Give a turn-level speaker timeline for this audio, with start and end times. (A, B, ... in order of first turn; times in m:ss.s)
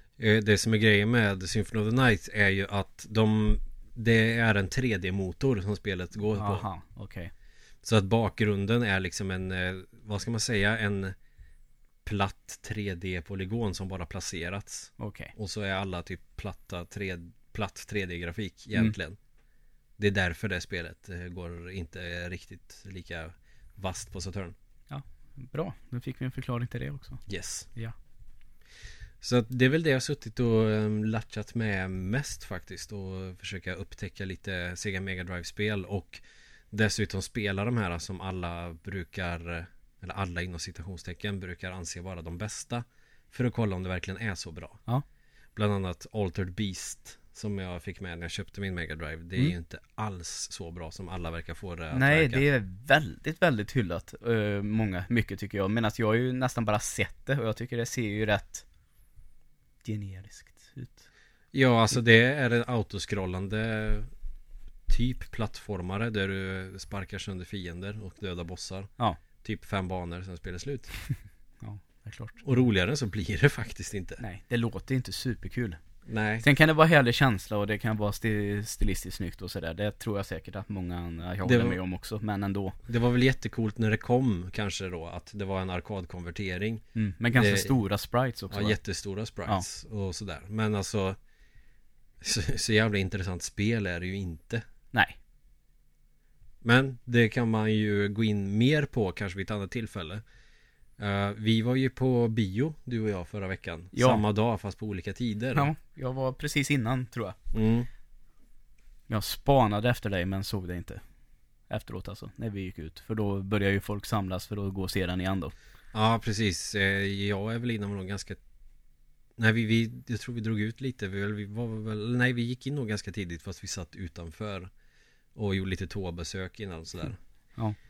0:00.2-0:06.7 A
0:06.4-0:07.3 B
0:07.8-0:11.1 A
0:12.0-0:19.2 A
0:15.0-0:15.3 B
0:20.0-0:24.5 A
0:24.9-0:27.2 B
0:27.3-0:27.7 A
0:29.2-0:36.2 A
0:36.7-0:44.8 A
0:45.6-0:52.4 A
0:51.9-0:58.6 B
0:59.8-1:01.1 B
1:01.5-1:04.1 A
1:04.9-1:08.9 A
1:09.4-1:10.9 A
1:11.6-1:12.4 B
1:12.4-1:14.2 A
1:14.2-1:15.8 B
1:16.0-1:16.4 A
1:16.4-1:22.8 B
1:21.4-1:21.8 A
1:22.9-1:27.8 A
1:27.0-1:28.8 B
1:28.5-1:31.2 A
1:32.2-1:34.6 A
1:36.6-1:40.2 A
1:41.0-1:45.7 A
1:43.9-1:44.2 B
1:45.5-1:47.4 B
1:47.5-1:47.9 A
1:49.1-1:51.0 B
1:51.7-1:55.5 B
1:55.9-1:58.4 A
1:59.4-2:04.7 A
2:05.3-2:07.2 A